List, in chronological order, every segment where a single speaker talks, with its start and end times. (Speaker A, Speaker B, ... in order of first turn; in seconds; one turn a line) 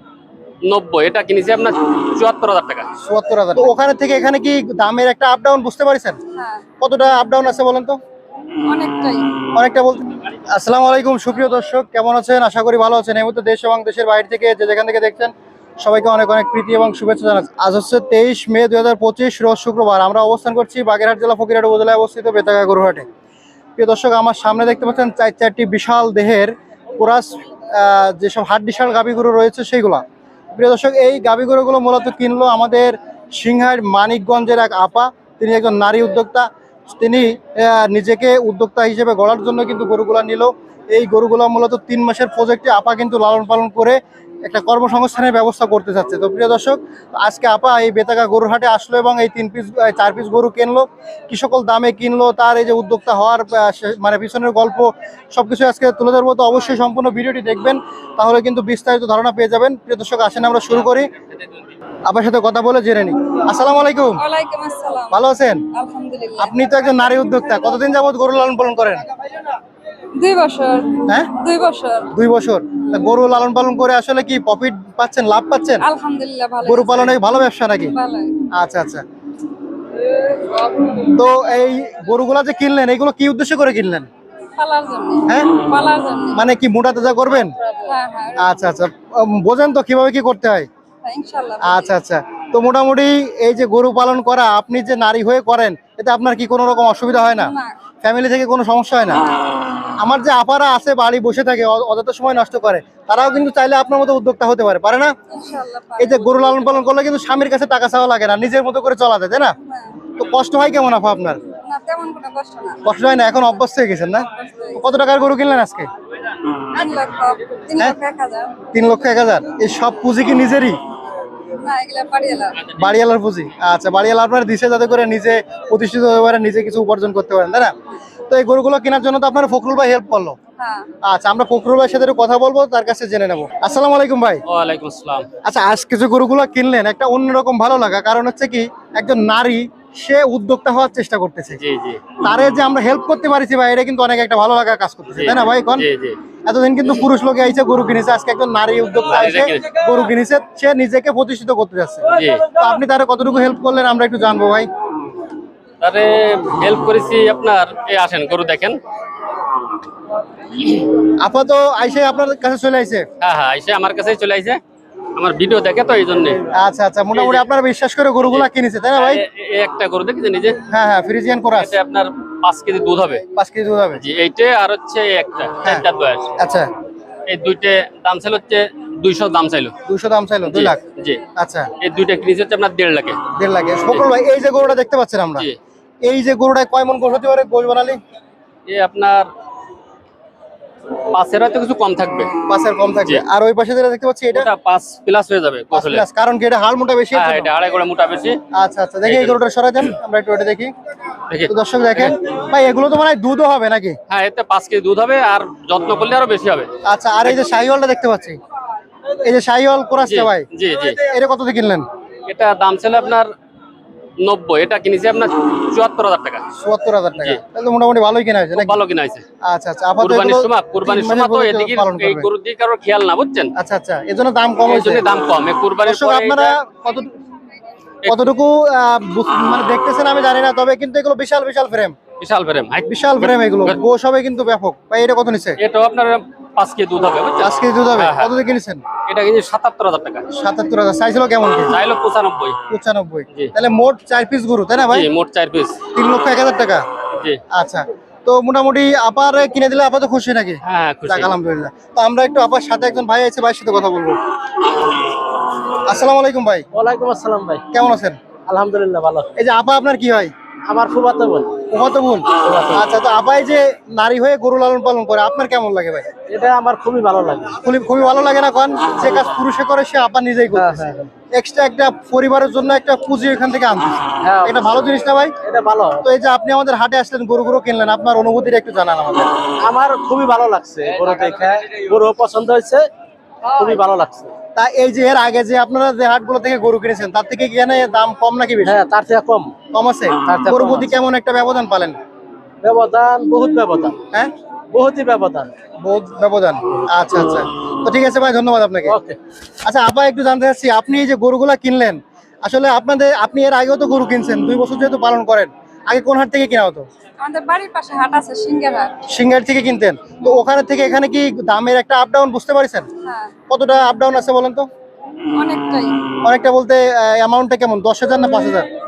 Speaker A: 0.6-2.9
Speaker B: 3.0-6.2
Speaker C: 6.3-6.6
Speaker B: 6.8-8.0
Speaker C: 8.7-9.3
Speaker B: 9.5-23.1
Speaker B: 23.8-30.0
Speaker B: 30.5-61.1
Speaker B: 62.0-64.2
Speaker C: 64.2-65.2
Speaker B: 65.1-65.7
Speaker C: 65.7-66.5
Speaker B: 66.4-69.1
Speaker C: 70.2-72.1
Speaker B: 72.1-75.9
Speaker C: 75.8-77.2
Speaker B: 76.6-78.0
Speaker C: 77.9-78.4
Speaker B: 78.5-79.0
Speaker C: 80.1-81.0
Speaker B: 81.0-84.1
Speaker C: 84.6-86.4
Speaker B: 85.3-85.6
Speaker B: 86.3-87.6
Speaker C: 87.8-88.5
Speaker B: 88.4-90.7
Speaker C: 91.0-91.9
Speaker B: 91.6-99.2
Speaker C: 97.4-97.7
Speaker B: 100.0-105.1
Speaker C: 105.3-106.7
Speaker B: 106.0-109.6
Speaker C: 109.7-110.0
Speaker B: 110.2-111.4
Speaker C: 111.6-112.8
Speaker B: 112.8-115.9
Speaker C: 114.4-114.8
Speaker C: 116.7-118.6
Speaker B: 118.7-120.8
Speaker C: 121.6-122.6
Speaker B: 122.8-127.7
Speaker B: 128.3-130.4
Speaker C: 130.6-130.9
Speaker B: 131.0-134.4
Speaker A: 134.5-135.2
Speaker B: 135.4-141.6
Speaker A: 141.6-142.1
Speaker B: 142.2-145.9
Speaker A: 145.2-146.2
Speaker B: 146.4-154.7
Speaker A: 149.1-149.7
Speaker A: 152.1-152.5
Speaker A: 155.8-158.8
Speaker B: 161.2-163.1
Speaker A: 163.2-164.6
Speaker A: 165.2-166.4
Speaker B: 166.5-169.2
Speaker A: 167.2-167.4
Speaker A: 168.3-170.6
Speaker B: 170.7-171.8
Speaker A: 171.6-173.2
Speaker B: 173.3-174.0
Speaker A: 174.0-176.3
Speaker B: 176.4-176.7
Speaker A: 177.3-179.7
Speaker B: 179.9-180.8
Speaker A: 180.4-181.2
Speaker B: 181.4-181.7
Speaker A: 181.8-183.2
Speaker B: 183.3-185.5
Speaker B: 186.0-188.0
Speaker A: 188.7-189.3
Speaker A: 191.1-192.3
Speaker B: 192.5-194.5
Speaker A: 194.3-196.1
Speaker B: 195.7-197.5
Speaker A: 197.1-198.4
Speaker B: 198.5-200.7
Speaker A: 199.1-199.4
Speaker A: 201.3-202.2
Speaker B: 201.5-204.0
Speaker A: 204.1-206.7
Speaker B: 206.8-208.4
Speaker B: 209.2-211.9
Speaker A: 210.0-211.0
Speaker A: 212.3-213.3
Speaker A: 214.2-216.4
Speaker B: 216.6-218.8
Speaker A: 218.6-219.2
Speaker B: 219.4-222.3
Speaker A: 220.0-223.5
Speaker B: 223.6-225.1
Speaker A: 224.7-226.6
Speaker B: 225.8-227.1
Speaker B: 228.1-232.0
Speaker A: 232.2-233.8
Speaker B: 232.9-235.6
Speaker A: 235.6-238.3
Speaker B: 237.4-238.8
Speaker A: 239.1-240.3
Speaker B: 240.4-241.7
Speaker A: 241.7-242.6
Speaker B: 242.7-245.1
Speaker A: 244.8-245.8
Speaker B: 245.9-246.8
Speaker B: 247.5-254.2
Speaker A: 250.6-251.3
Speaker B: 255.8-256.7
Speaker D: 256.7-257.6
Speaker B: 257.7-258.2
Speaker D: 258.5-259.3
Speaker B: 259.4-260.3
Speaker D: 260.7-261.5
Speaker B: 261.7-266.1
Speaker D: 262.4-262.9
Speaker D: 266.3-267.6
Speaker B: 267.6-275.4
Speaker D: 270.5-271.1
Speaker D: 274.2-274.7
Speaker D: 275.4-276.1
Speaker B: 276.0-279.4
Speaker D: 279.6-282.9
Speaker D: 283.4-284.3
Speaker B: 284.6-288.8
Speaker D: 288.6-289.5
Speaker B: 289.7-292.0
Speaker D: 290.2-290.9
Speaker D: 292.6-294.0
Speaker D: 294.7-295.5
Speaker B: 295.8-299.0
Speaker D: 298.9-299.2
Speaker B: 299.6-306.9
Speaker C: 307.2-309.0
Speaker B: 309.1-312.9
Speaker C: 313.0-313.3
Speaker B: 313.5-314.7
Speaker C: 315.3-316.0
Speaker B: 316.2-318.7